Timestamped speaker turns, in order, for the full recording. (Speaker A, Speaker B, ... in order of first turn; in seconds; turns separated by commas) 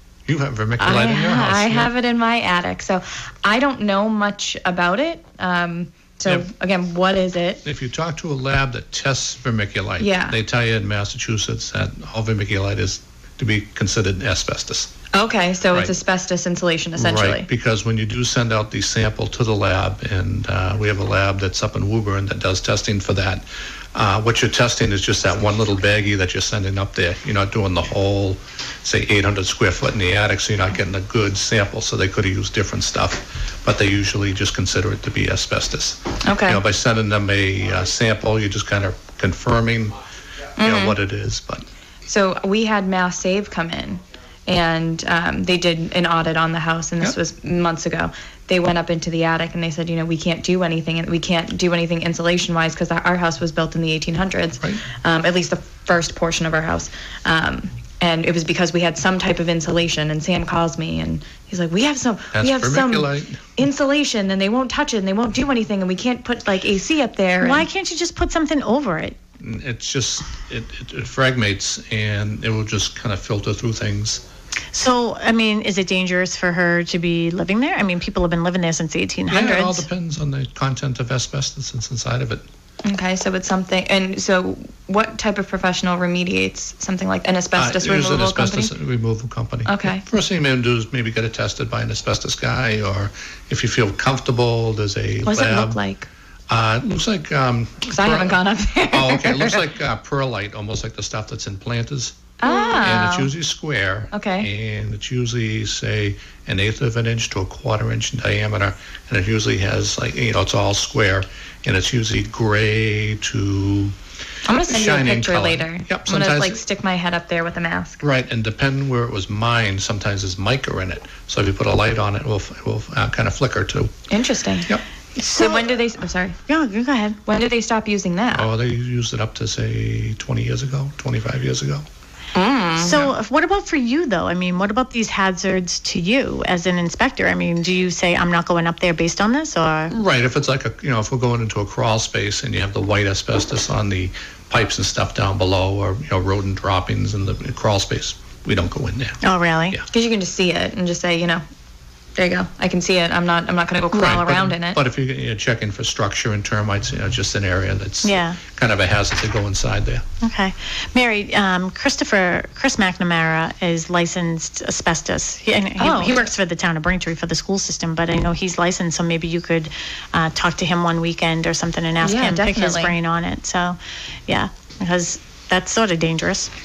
Speaker A: 0.3-1.9, Speaker B: 0.8-7.6, Speaker A: 7.6-14.9, Speaker B: 10.0-10.4, Speaker B: 15.1-17.5, Speaker A: 16.9-40.0, Speaker B: 36.2-36.6, Speaker A: 40.6-41.6, Speaker B: 40.6-41.0, Speaker B: 42.0-67.7, Speaker A: 62.3-63.4, Speaker C: 67.4-69.2, Speaker A: 69.4-74.2, Speaker C: 74.7-79.8, Speaker A: 79.3-82.5, Speaker B: 82.8-88.7, Speaker A: 87.5-95.8, Speaker B: 89.7-90.0, Speaker B: 95.2-96.1, Speaker A: 96.5-114.0, Speaker B: 97.8-99.6, Speaker B: 102.4-103.3, Speaker B: 104.1-104.5, Speaker B: 114.5-118.0, Speaker A: 114.7-116.6, Speaker A: 118.0-124.0, Speaker B: 124.1-126.4, Speaker C: 125.2-125.7, Speaker C: 126.5-127.2, Speaker B: 127.2-128.5, Speaker A: 128.3-131.8, Speaker B: 132.3-132.9, Speaker C: 132.8-139.9, Speaker A: 132.9-133.1, Speaker A: 139.9-149.2, Speaker C: 149.2-149.8, Speaker B: 149.9-151.4, Speaker B: 152.2-154.8, Speaker A: 153.9-160.0, Speaker C: 158.0-158.4, Speaker C: 160.2-176.5, Speaker B: 165.8-166.3, Speaker B: 172.0-172.9